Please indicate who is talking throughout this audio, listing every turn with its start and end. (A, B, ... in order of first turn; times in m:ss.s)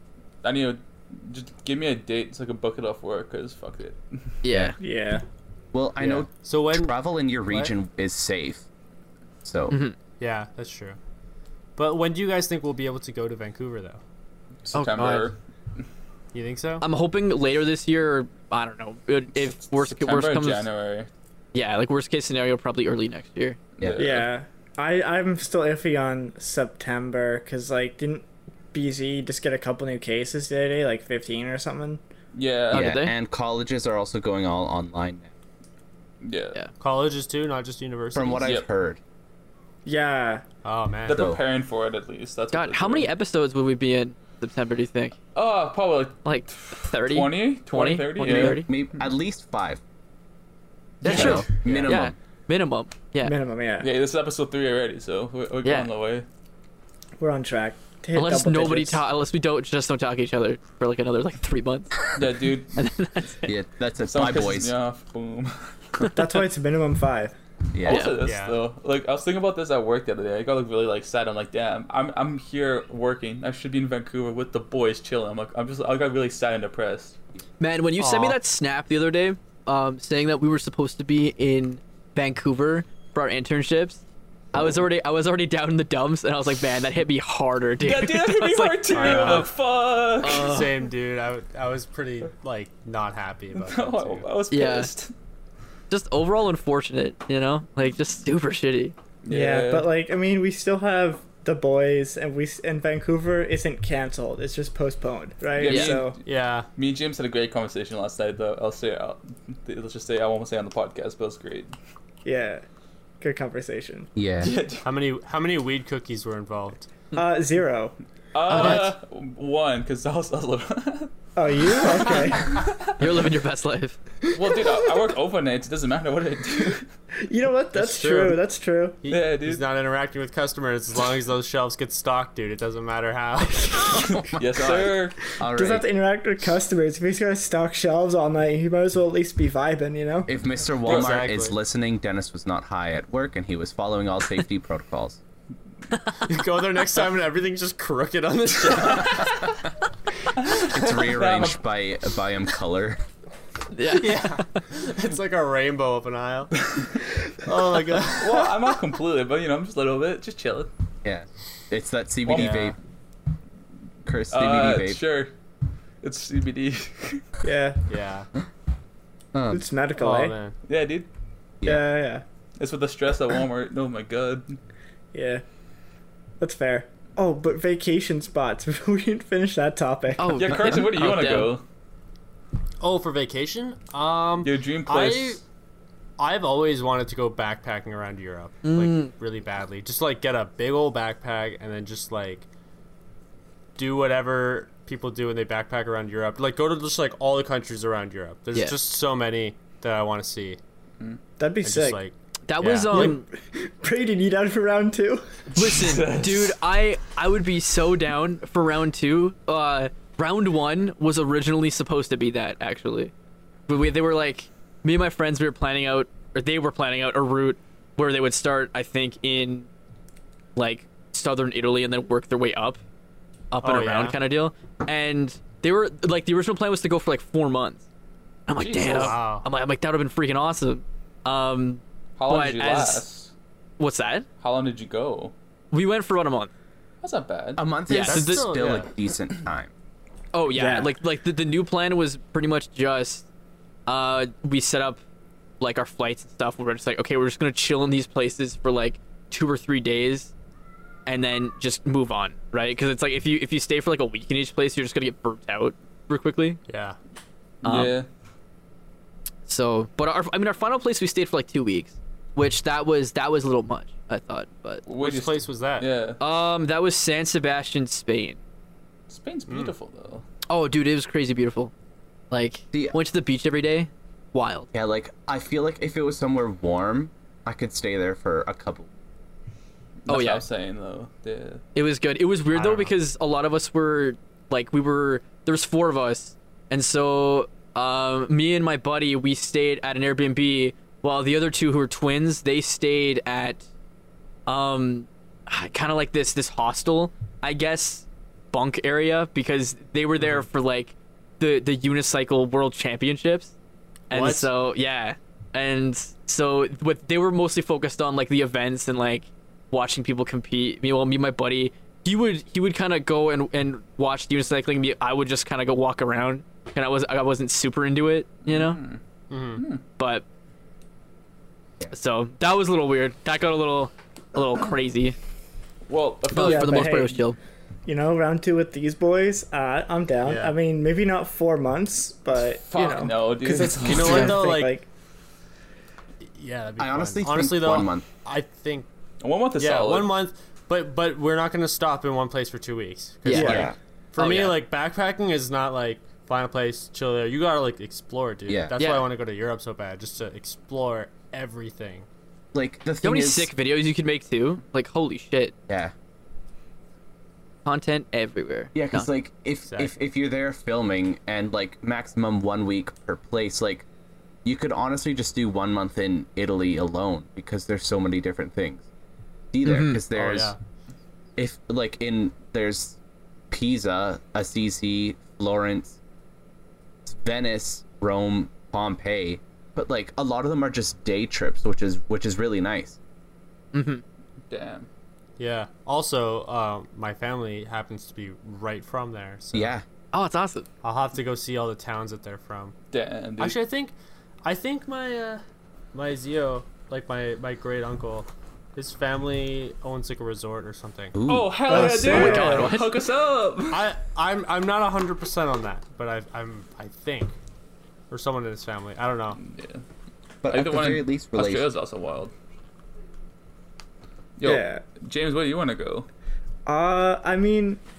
0:00.4-0:04.3 A
0:04.4-0:04.8 B
0:04.8-0:05.2 C
0:05.7-0:08.6 D
0:06.0-0:07.7 E
0:09.4-0:09.8 D
0:09.7-0:10.0 B
0:10.2-0:11.0 E
0:11.8-0:14.0 E
0:14.6-0:15.4 A
0:14.7-0:15.2 B
0:15.0-0:15.3 E
0:16.3-0:16.8 E
0:16.8-0:20.7 B
0:19.4-0:21.1 A
0:21.5-0:23.6 B
0:23.8-0:24.2 D
0:23.8-0:24.3 A
0:24.0-0:32.0 C
0:32.3-0:32.9 A
0:32.7-0:33.1 B
0:32.7-0:35.3 D
0:36.2-0:36.6 A
0:36.8-0:38.5 E
0:38.1-0:39.0 D
0:38.4-0:38.6 A
0:39.9-0:40.4 C
0:40.6-0:41.3 E
0:41.1-0:43.1 A
0:41.1-0:41.4 D
0:42.5-0:45.2 B
0:45.4-0:48.7 A
0:46.2-0:48.7 B
0:48.2-0:49.8 D
0:51.0-0:53.3 B
0:51.0-0:51.9 A
0:51.0-0:52.1 D
0:53.2-0:53.9 C
0:53.8-0:56.3 A
0:55.6-0:55.9 B
0:57.2-0:59.0 C
0:58.1-1:02.0 B
1:02.1-1:02.8 A
1:02.8-1:03.5 B
1:03.4-1:04.7 D
1:04.1-1:06.1 A
1:06.1-1:07.3 C
1:07.7-1:08.1 D
1:07.8-1:17.2 A
1:07.9-1:08.2 B
1:08.2-1:08.6 E
1:17.6-1:24.0 B
1:18.0-1:18.4 E
1:24.5-1:29.5 B
1:27.8-1:30.5 A
1:28.9-1:29.5 E
1:30.2-1:30.8 B
1:30.2-1:34.3 E
1:33.5-1:35.1 A
1:34.5-1:34.9 B
1:35.9-1:39.0 B
1:39.2-1:39.9 A
1:39.3-1:46.2 C
1:45.6-1:46.2 A
1:45.7-1:46.0 B
1:46.2-1:46.7 E
1:46.7-1:51.7 A
1:52.2-1:52.6 C
1:53.2-1:54.1 C
1:54.2-1:54.5 D
1:54.4-1:54.9 A
1:54.8-1:56.9 E
1:57.1-1:58.0 C
1:58.3-2:03.1 A
1:58.5-1:58.9 B
1:58.5-1:58.9 C
2:01.4-2:02.7 C
2:03.0-2:04.0 B
2:04.2-2:04.8 C
2:04.3-2:06.9 A
2:07.2-2:09.0 C
2:07.8-2:08.4 E
2:09.0-2:14.1 E
2:09.1-2:09.6 A
2:13.9-2:15.9 D
2:13.9-2:15.3 A
2:15.5-2:20.3 C
2:20.3-2:25.2 D
2:20.8-2:21.6 E
2:20.9-2:21.2 A
2:26.2-2:29.3 E
2:28.7-2:29.4 A
2:30.4-2:31.6 A
2:30.7-2:33.0 D
2:33.7-2:34.6 B
2:33.8-2:36.5 E
2:36.6-2:37.0 A
2:37.4-2:38.5 E
2:37.9-2:40.7 A
2:41.0-2:42.8 D
2:42.3-2:42.7 A
2:42.3-2:42.7 E
2:44.1-2:45.0 D
2:44.3-2:45.3 A
2:46.0-2:47.2 A
2:47.4-2:47.8 C
2:47.9-2:48.3 E
2:49.3-2:49.6 D
2:49.5-2:50.4 C
2:50.0-2:50.6 E
2:50.7-2:51.1 A
2:51.6-2:52.2 C
2:52.6-2:54.6 A
2:55.1-2:55.4 C
2:56.4-3:00.5 C
3:00.2-3:01.6 B
3:00.4-3:01.6 A
3:02.8-3:05.4 E
3:04.4-3:05.4 A
3:06.2-3:12.5 E
3:08.6-3:09.1 B
3:13.8-3:20.6 E
3:18.5-3:18.8 B
3:21.4-3:22.0 C
3:21.6-3:23.2 E
3:22.5-3:23.2 B
3:22.9-3:25.2 C
3:25.5-3:33.1 B
3:25.6-3:26.6 A
3:33.7-3:39.7 B
3:40.6-3:42.8 B
3:43.5-3:47.8 B
3:43.6-3:44.2 E
3:48.5-3:53.0 B
3:48.6-3:49.2 A
3:48.9-3:49.5 E
3:52.2-3:53.3 A
3:53.8-3:54.3 B
3:54.4-3:55.3 A
3:55.7-3:56.5 B
3:57.0-3:57.6 A
3:57.6-3:59.7 D
3:57.9-3:58.6 B
3:58.0-3:58.9 E
4:00.3-4:03.2 B
4:00.5-4:00.9 C
4:03.9-4:05.0 B
4:05.6-4:10.3 B
4:11.1-4:16.6 B
4:16.7-4:17.0 E
4:17.6-4:18.1 A
4:17.6-4:17.9 B
4:19.5-4:24.8 B
4:24.9-4:26.2 A
4:25.0-4:25.9 E
4:26.2-4:28.4 B
4:29.1-4:30.2 A
4:29.5-4:29.7 E
4:30.5-4:31.7 B
4:32.3-4:34.7 B
4:34.7-4:38.9 D
4:40.1-4:41.6 A
4:40.1-4:40.4 B
4:41.7-4:53.6 B
4:42.6-4:42.9 E
4:54.5-5:03.5 B
5:04.1-5:04.5 E
5:04.1-5:18.8 B
5:18.4-5:19.0 A
5:19.3-5:19.6 E
5:19.6-5:19.8 A
5:20.0-5:20.2 B
5:21.9-5:25.2 B
5:25.9-5:27.1 A
5:26.3-5:27.4 B
5:26.4-5:27.2 C
5:27.9-5:34.9 C
5:30.2-5:30.6 E
5:32.7-5:34.4 A
5:33.8-5:34.8 E
5:34.0-5:34.4 B
5:36.4-5:38.9 E
5:36.8-5:38.1 D
5:39.2-5:40.1 A
5:39.6-5:52.1 E
5:43.2-5:44.6 B
5:43.3-5:43.7 C
5:43.3-5:43.7 D
5:48.5-5:48.7 D
5:48.8-5:49.1 B
5:52.5-5:53.5 D
5:53.0-5:55.5 B
5:57.6-5:59.1 B
5:58.7-6:03.9 D
5:59.7-5:59.9 E
6:04.4-6:08.8 D
6:09.5-6:10.5 D
6:09.6-6:10.0 B
6:10.1-6:10.6 E
6:11.4-6:13.0 D
6:13.5-6:16.0 D
6:17.1-6:23.0 D
6:23.7-6:24.0 B
6:24.5-6:24.9 A
6:25.4-6:29.7 E
6:29.5-6:29.8 D
6:30.1-6:30.7 B
6:30.8-6:32.7 E
6:32.9-6:33.6 A
6:33.4-6:35.4 E
6:35.9-6:41.2 E
6:41.1-6:41.6 D
6:41.3-6:43.8 A
6:41.7-6:42.8 C
6:41.7-6:43.0 B
6:42.2-6:42.6 E
6:43.7-6:47.3 E
6:48.1-6:49.4 E
6:49.4-6:49.8 A
6:50.4-6:51.7 D
6:50.5-6:52.3 A
6:54.4-6:56.1 A
6:54.4-6:54.8 C
6:56.6-6:57.8 C